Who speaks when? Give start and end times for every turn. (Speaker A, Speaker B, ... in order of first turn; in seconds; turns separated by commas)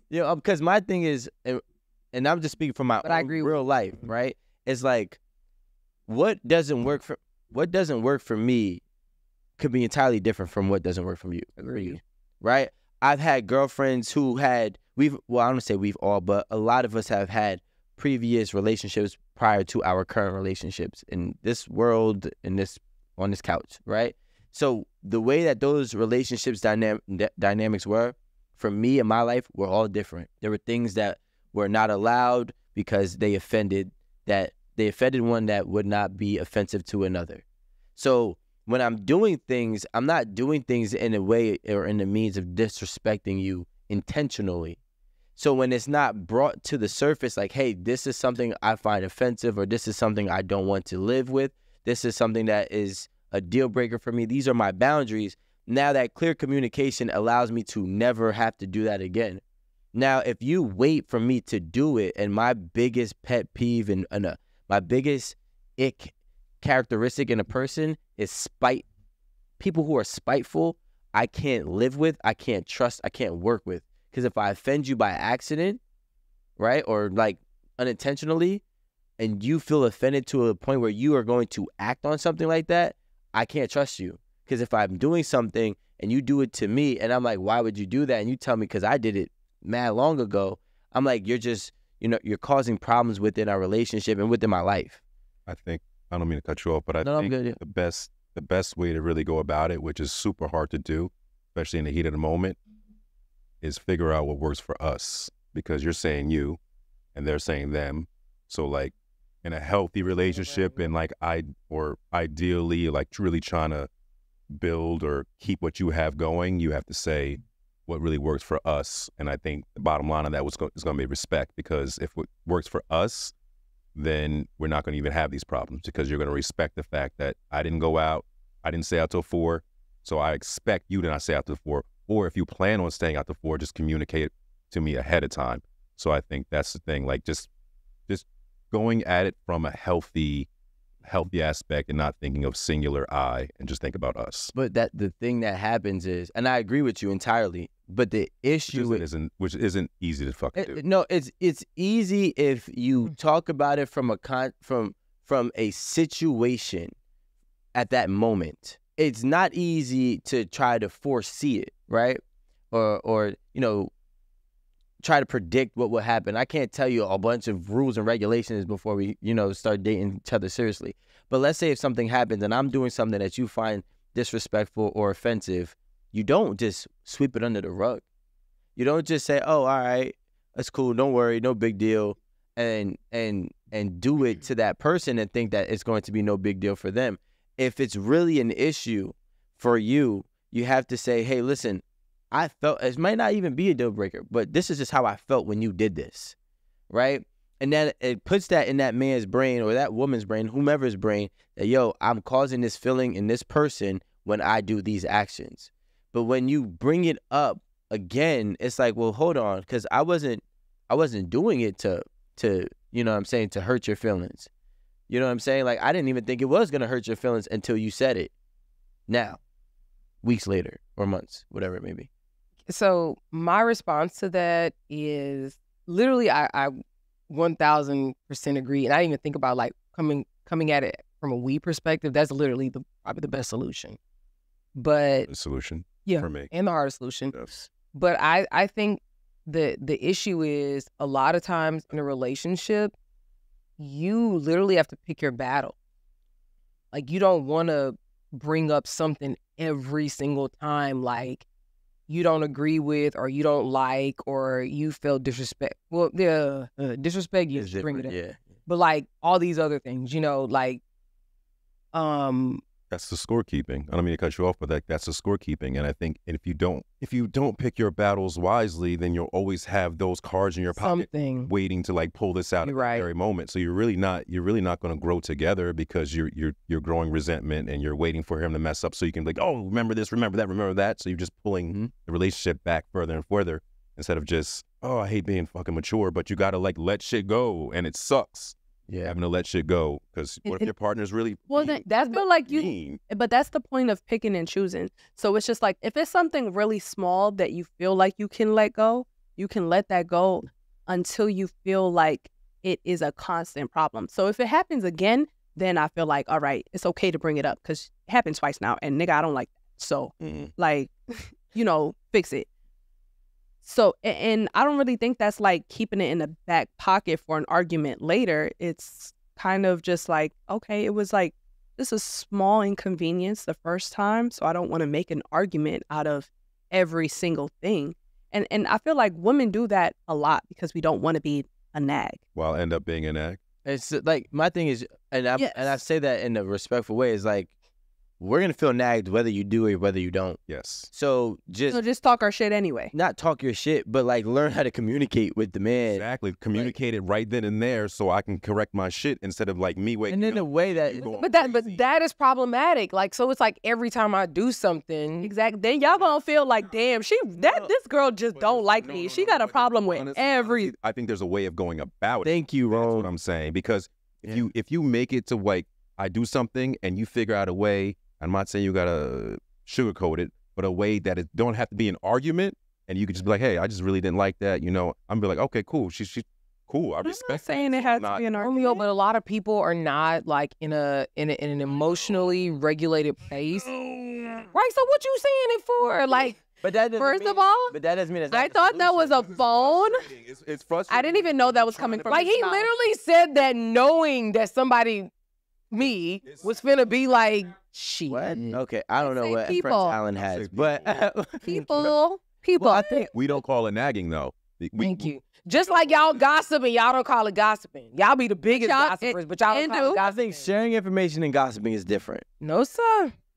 Speaker A: 0.1-1.6, Speaker A: 2.1-5.2, Speaker B: 3.0-3.6, Speaker A: 6.1-8.8, Speaker A: 9.6-37.4, Speaker B: 11.6-12.0, Speaker A: 38.0-44.8, Speaker A: 45.4-59.4, Speaker A: 59.9-68.8, Speaker A: 69.6-75.8, Speaker A: 76.6-78.6, Speaker A: 79.2-95.0, Speaker C: 95.5-102.6, Speaker A: 97.0-97.6, Speaker C: 103.6-106.6, Speaker C: 107.2-108.9, Speaker C: 109.4-113.9, Speaker B: 110.3-110.9, Speaker C: 114.5-123.3, Speaker C: 124.0-137.5, Speaker C: 138.1-140.5, Speaker C: 141.0-144.5, Speaker A: 144.6-149.0, Speaker C: 148.7-150.8, Speaker A: 150.6-156.9, Speaker A: 157.8-163.9, Speaker A: 165.0-178.0, Speaker A: 178.8-196.3, Speaker A: 196.9-214.5, Speaker A: 215.1-218.3, Speaker A: 219.1-219.4, Speaker A: 220.2-222.1, Speaker B: 222.7-226.8, Speaker B: 227.3-234.0, Speaker B: 234.8-235.3, Speaker C: 235.3-236.5, Speaker B: 236.1-237.3, Speaker C: 237.3-237.7, Speaker B: 237.9-242.9, Speaker B: 243.8-245.8, Speaker B: 246.9-251.4, Speaker B: 252.1-258.1, Speaker A: 257.5-258.4, Speaker B: 258.7-260.8, Speaker B: 261.9-262.6, Speaker C: 262.9-293.0, Speaker B: 270.7-271.5, Speaker B: 272.6-273.1, Speaker A: 288.9-289.1, Speaker B: 290.5-290.7, Speaker D: 291.5-312.5, Speaker B: 291.9-292.2, Speaker C: 310.2-310.5, Speaker D: 313.6-332.2, Speaker C: 332.4-333.4, Speaker A: 333.6-337.5, Speaker D: 335.4-335.8, Speaker A: 338.2-340.4, Speaker C: 340.5-340.9, Speaker A: 340.9-341.8, Speaker D: 341.7-342.9, Speaker A: 342.9-346.8, Speaker C: 345.9-351.8, Speaker A: 350.1-351.1, Speaker B: 351.2-355.3, Speaker D: 355.2-360.7, Speaker C: 358.4-378.2, Speaker A: 362.2-363.1, Speaker D: 377.0-378.9, Speaker B: 378.4-383.7, Speaker B: 384.5-386.4, Speaker A: 386.6-389.2, Speaker D: 387.0-387.8, Speaker D: 388.3-390.1, Speaker C: 389.3-392.3, Speaker D: 390.9-392.7, Speaker B: 392.1-395.1, Speaker B: 395.7-398.6, Speaker A: 398.1-401.9, Speaker D: 399.0-400.0, Speaker C: 400.2-401.0, Speaker D: 401.4-403.1, Speaker A: 402.6-403.1, Speaker C: 403.1-405.1, Speaker B: 404.8-410.5, Speaker D: 408.5-410.0, Speaker A: 410.0-412.2, Speaker B: 412.4-413.1